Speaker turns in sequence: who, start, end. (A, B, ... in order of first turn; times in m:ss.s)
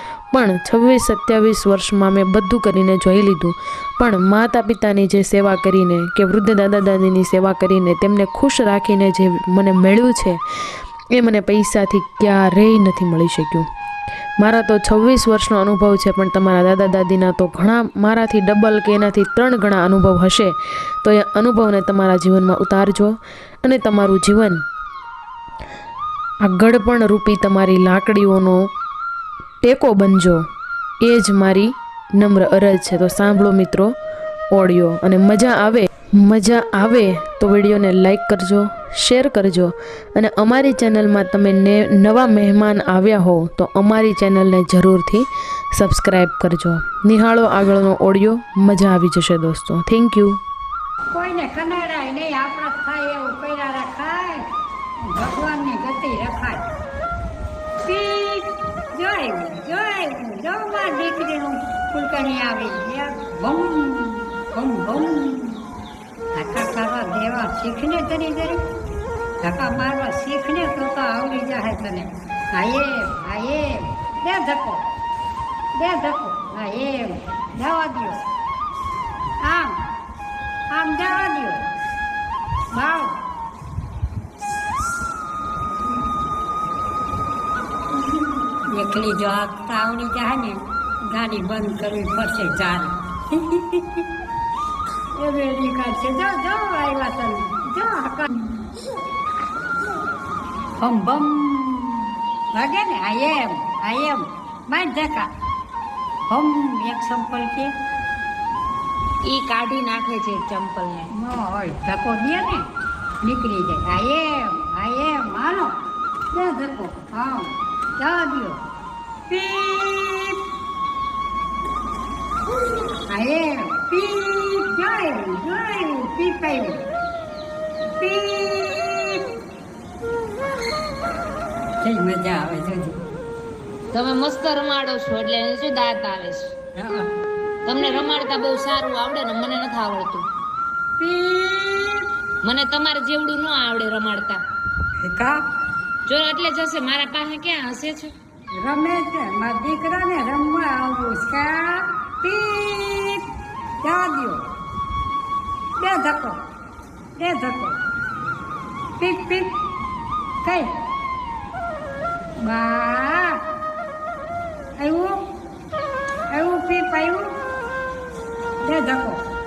0:00.3-0:10.4 A
0:11.1-0:13.7 A
0:14.4-0:24.6 A
0:26.4-0:28.7 A
0:29.6-0:30.4 A
0:31.0-0:33.9 A
0:34.5-0:50.4 A
0:51.1-0:54.4 B
0:55.1-0:56.6 B
0:57.8-1:05.6 B
1:06.3-1:08.6 B
1:09.4-1:14.8 B
1:15.8-1:18.2 B
1:19.4-1:19.8 B
1:20.7-1:21.6 B
1:22.7-1:23.2 B
1:28.1-1:34.1 B
1:35.1-1:38.6 B
1:40.8-1:45.3 B
1:46.3-1:47.7 B
1:49.2-1:51.1 C
1:51.1-1:52.6 B
1:53.2-1:55.7 B
1:56.3-1:58.6 B
1:59.3-2:00.4 B
2:03.1-2:06.8 B
2:08.0-2:09.3 B
2:11.8-2:13.0 B
2:13.9-2:16.5 C
2:16.8-2:17.1 B
2:17.6-2:20.3 C
2:17.8-2:18.1 B
2:21.0-2:22.1 B
2:22.4-2:24.4 C
2:25.0-2:25.4 B
2:26.0-2:28.1 C
2:28.5-2:33.3 B
2:33.8-2:34.4 B
2:35.8-2:36.4 B
2:37.2-2:37.8 B
2:39.0-2:39.6 B
2:40.4-2:40.7 B
2:42.4-2:43.4 B
2:44.8-2:45.4 B
2:46.3-2:47.3 B
2:48.6-2:49.2 B